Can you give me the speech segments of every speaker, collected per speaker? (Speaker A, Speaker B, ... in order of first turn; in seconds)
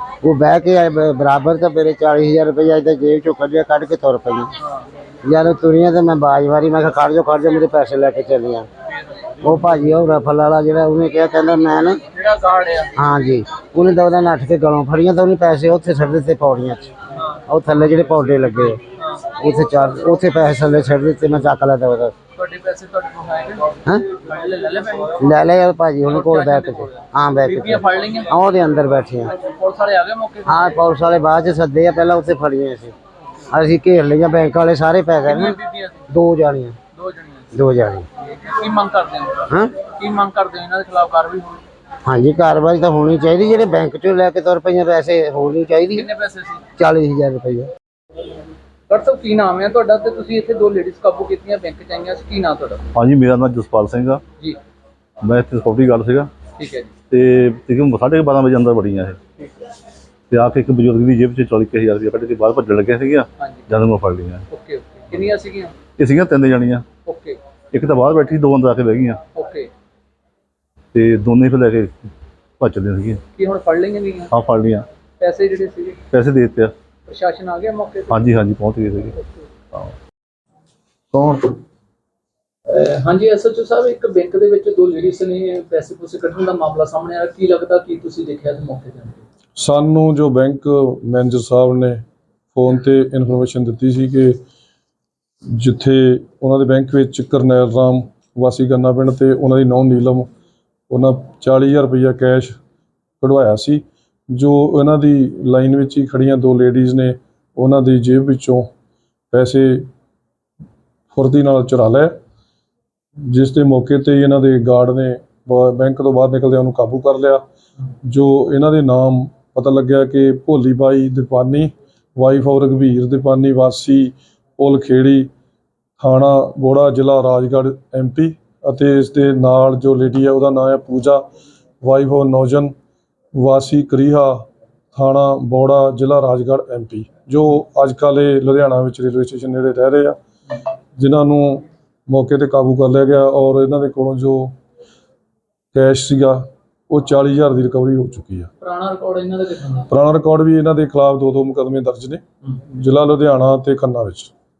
Speaker A: 0.2-4.5, 5.2-8.7, 9.4-12.0, 12.9-16.9, 17.5-18.8, 19.3-22.1, 25.2-29.3, 30.4-32.9, 33.5-35.6, 36.1-36.8, 37.5-38.0, 42.0-46.1, 46.8-47.7
Speaker B: 12.1-12.9, 19.0-19.3, 22.3-25.2, 26.0-28.4, 29.3-30.8, 35.2-36.0, 36.9-37.5, 38.2-41.6, 45.9-46.6, 48.9-52.8, 56.5-56.9, 63.4-63.7, 64.5-65.8, 67.0-67.4, 69.3-69.7, 73.3-74.3, 75.2-76.0, 77.0-78.3, 82.7-89.2, 148.6-149.9
Speaker C: 52.9-54.2, 55.2-56.3, 57.1-59.2, 60.3-64.4, 66.0-66.8, 67.7-69.2, 70.9-71.9, 72.6-73.2, 74.3-74.8, 76.1-76.7, 78.1-79.2, 81.1-81.5
Speaker D: 89.6-94.4, 95.5-100.3, 100.9-102.6, 103.2-108.7, 109.3-109.9, 111.1-112.2, 113.2-117.4, 118.0-125.3, 126.0-131.2, 131.8-132.7, 133.3-140.2, 140.9-144.5, 145.7-148.5, 149.9-154.3